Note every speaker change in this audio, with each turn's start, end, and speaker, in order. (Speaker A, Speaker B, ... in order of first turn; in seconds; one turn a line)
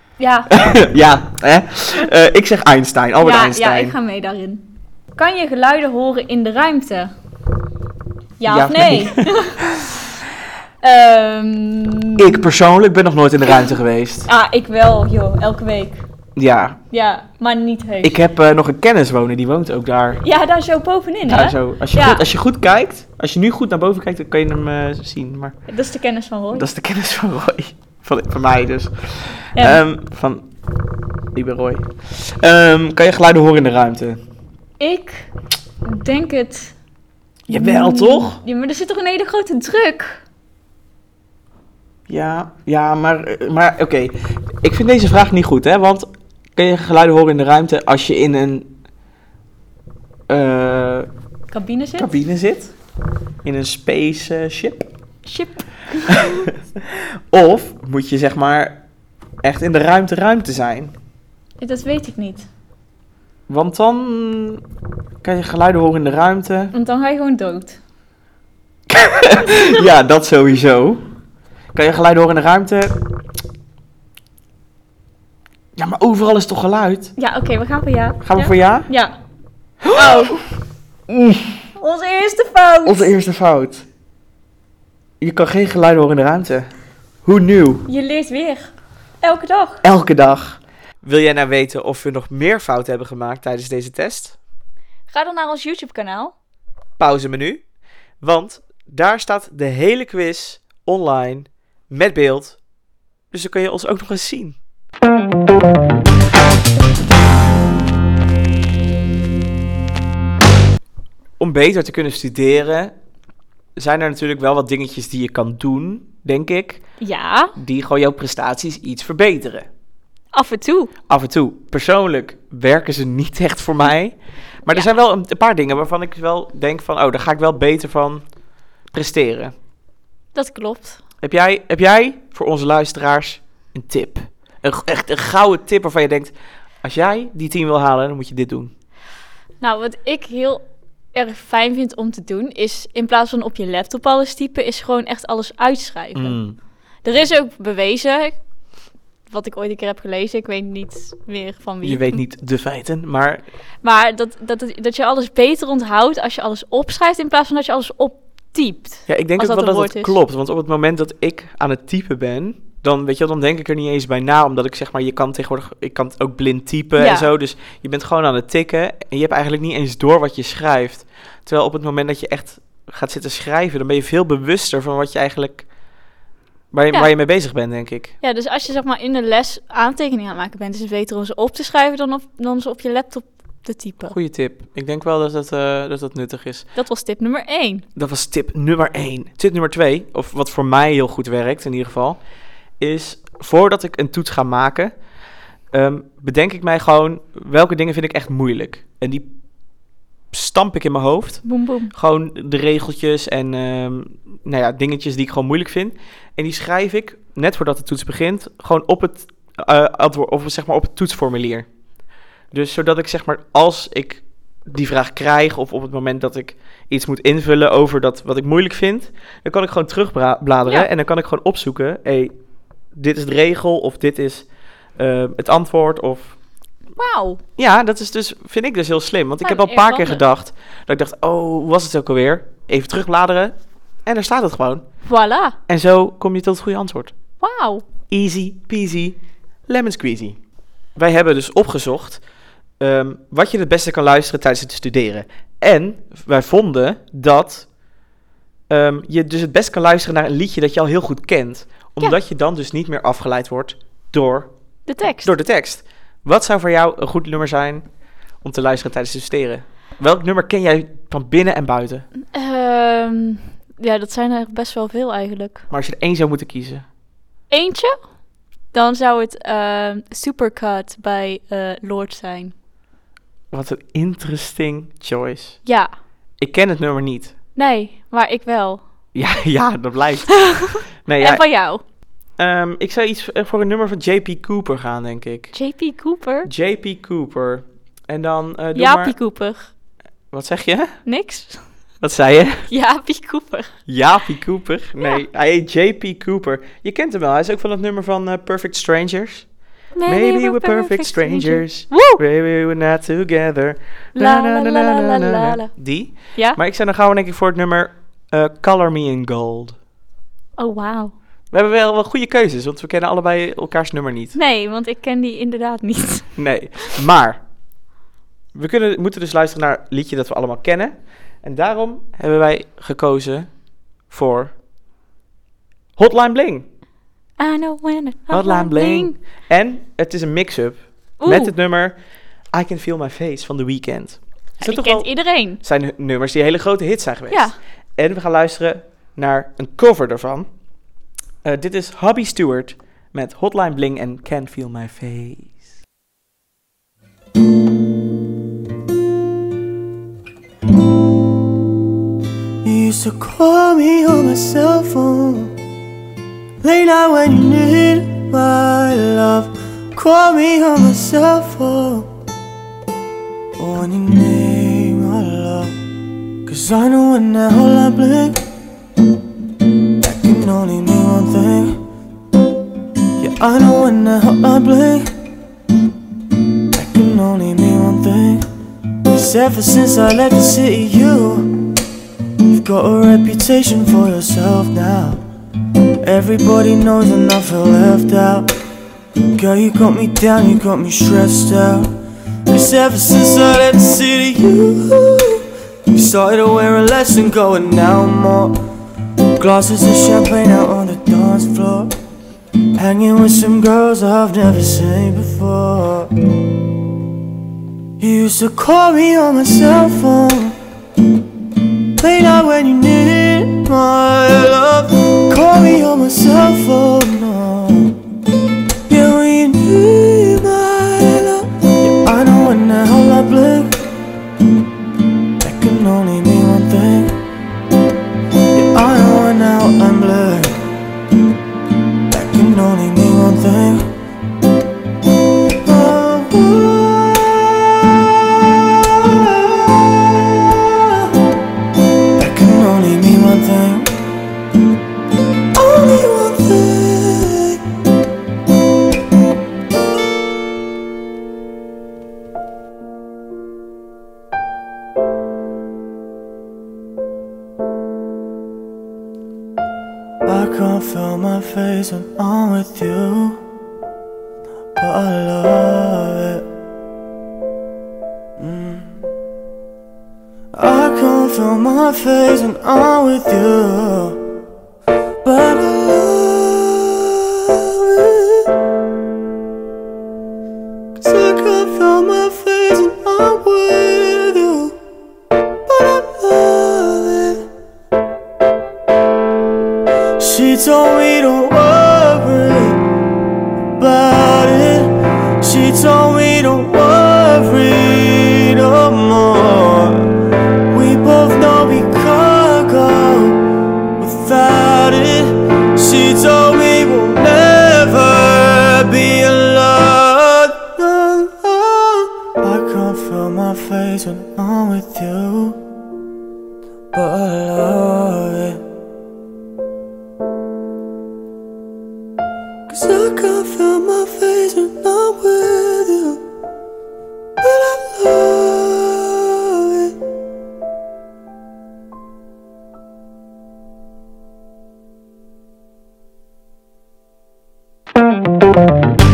Speaker A: 0.2-0.6
Speaker B: 0.5-4.0
Speaker A: 3.2-7.1
Speaker A: 8.4-9.6
Speaker B: 8.5-9.9
Speaker A: 10.8-12.4
Speaker B: 12.2-14.3
Speaker A: 13.5-13.7
Speaker A: 14.3-16.0
Speaker B: 16.4-16.8
Speaker A: 16.9-18.2
Speaker B: 18.0-20.2
Speaker A: 20.2-22.2
Speaker B: 21.2-25.6
Speaker A: 25.7-26.7
Speaker B: 26.5-30.5
Speaker A: 29.6-29.8
Speaker B: 31.4-34.2
Speaker A: 34.8-35.3
Speaker A: 35.8-36.8
Speaker B: 37.5-38.4
Speaker A: 37.5-40.2
Speaker B: 42.1-48.7
Speaker B: 50.3-51.1
Speaker A: 51.5-52.1
Speaker B: 52.0-52.7
Speaker B: 53.4-54.9
Speaker A: 55.2-56.5
Speaker B: 56.1-58.8
Speaker B: 59.4-60.9
Speaker A: 61.6-62.5
Speaker B: 63.5-64.6
Speaker B: 65.2-66.7
Speaker A: 66.7-67.8
Speaker B: 68.9-71.0
Speaker B: 71.7-73.0
Speaker B: 75.8-77.1
Speaker A: 77.2-79.2
Speaker B: 78.2-78.9
Speaker B: 79.8-80.4
Speaker A: 79.9-80.4
Speaker B: 81.1-81.6
Speaker A: 81.8-83.1
Speaker B: 82.8-83.8
Speaker B: 85.2-86.7
Speaker B: 87.2-87.9
Speaker A: 87.9-89.8
Speaker B: 89.8-94.4
Speaker A: 95.1-96.3
Speaker B: 97.0-97.6
Speaker B: 98.2-102.6
Speaker B: 103.3-104.6
Speaker B: 111.4-112.9
Speaker B: 113.8-116.8
Speaker A: 117.0-117.5
Speaker B: 117.6-119.7
Speaker A: 120.3-120.9
Speaker B: 121.1-128.3
Speaker B: 128.9-129.5
Speaker A: 130.3-131.0
Speaker B: 131.2-138.7
Speaker A: 139.6-146.4
Speaker B: 146.2-146.6
Speaker A: 147.0-148.4
Speaker A: 149.3-152.2
Speaker B: 151.8-153.4
Speaker A: 153.8-160.2
Speaker B: 159.1-175.7
Speaker A: 167.0-167.3
Speaker B: 176.7-178.2
Speaker A: 178.2-184.2
Speaker B: 184.1-186.7
Speaker A: 186.8-187.9
Speaker B: 188.0-192.2
Speaker B: 192.8-194.9
Speaker B: 195.7-199.3
Speaker B: 200.3-211.7
Speaker A: 201.4-201.9
Speaker B: 212.5-222.3
Speaker B: 222.9-226.4
Speaker A: 226.9-227.4
Speaker B: 227.6-233.5
Speaker A: 229.4-230.2
Speaker B: 234.1-234.8
Speaker A: 235.1-235.6
Speaker B: 235.7-237.1
Speaker A: 237.4-237.8
Speaker B: 238.1-240.4
Speaker B: 240.9-242.2
Speaker B: 242.8-247.7
Speaker B: 248.7-254.5
Speaker A: 254.9-255.3
Speaker B: 255.1-257.9
Speaker B: 258.4-262.1
Speaker A: 262.2-265.6
Speaker B: 265.7-266.9
Speaker A: 267.5-268.0
Speaker A: 268.7-272.5
Speaker B: 273.5-275.6
Speaker A: 275.6-275.9
Speaker B: 276.4-277.4
Speaker A: 277.6-278.8
Speaker B: 279.1-281.4
Speaker A: 280.4-281.8
Speaker B: 282.4-285.5
Speaker A: 285.5-286.5
Speaker B: 286.4-289.1
Speaker A: 288.8-289.7
Speaker B: 290.3-291.0
Speaker A: 291.1-291.6
Speaker B: 292.0-292.7
Speaker A: 292.7-293.8
Speaker B: 293.9-299.5
Speaker A: 299.9-302.2
Speaker B: 300.1-309.8
Speaker A: 304.2-306.6
Speaker A: 310.6-311.1
Speaker B: 311.5-314.4
Speaker A: 314.3-316.4
Speaker B: 316.4-317.4
Speaker B: 318.5-323.6
Speaker B: 324.1-324.5
Speaker B: 326.0-326.7
Speaker A: 327.4-329.2
Speaker B: 328.3-332.0
Speaker A: 331.2-331.5
Speaker B: 332.5-340.5
Speaker A: 334.6-335.6
Speaker A: 337.3-337.6
Speaker B: 341.4-345.5
Speaker C: 352.6-355.6
Speaker C: 356.6-362.1
Speaker C: 363.6-365.8
Speaker C: 366.5-368.4
Speaker C: 370.0-371.8
Speaker C: 373.2-375.1
Speaker C: 376.7-378.5
Speaker C: 379.1-381.6
Speaker C: 382.5-385.2
Speaker C: 386.0-388.5
Speaker C: 389.3-391.9
Speaker C: 392.5-398.6
Speaker C: 399.4-401.9
Speaker C: 402.8-406.1
Speaker C: 408.0-410.6
Speaker C: 412.0-418.0
Speaker C: 418.9-423.8
Speaker C: 425.4-427.2
Speaker C: 428.5-430.6
Speaker C: 432.1-433.9
Speaker C: 435.6-441.1
Speaker C: 442.2-443.9
Speaker C: 445.5-447.6
Speaker C: 460.2-463.4
Speaker C: 464.8-466.5
Speaker C: 468.4-469.0
Speaker C: 470.5-474.2
Speaker C: 475.2-478.5
Speaker C: 481.0-484.8
Speaker C: 485.7-487.4
Speaker C: 490.2-492.8
Speaker C: 493.8-500.1
Speaker C: 500.7-503.4
Speaker C: 504.0-515.6
Speaker C: 516.9-518.6
Speaker C: 522.7-526.2
Speaker C: 527.4-530.0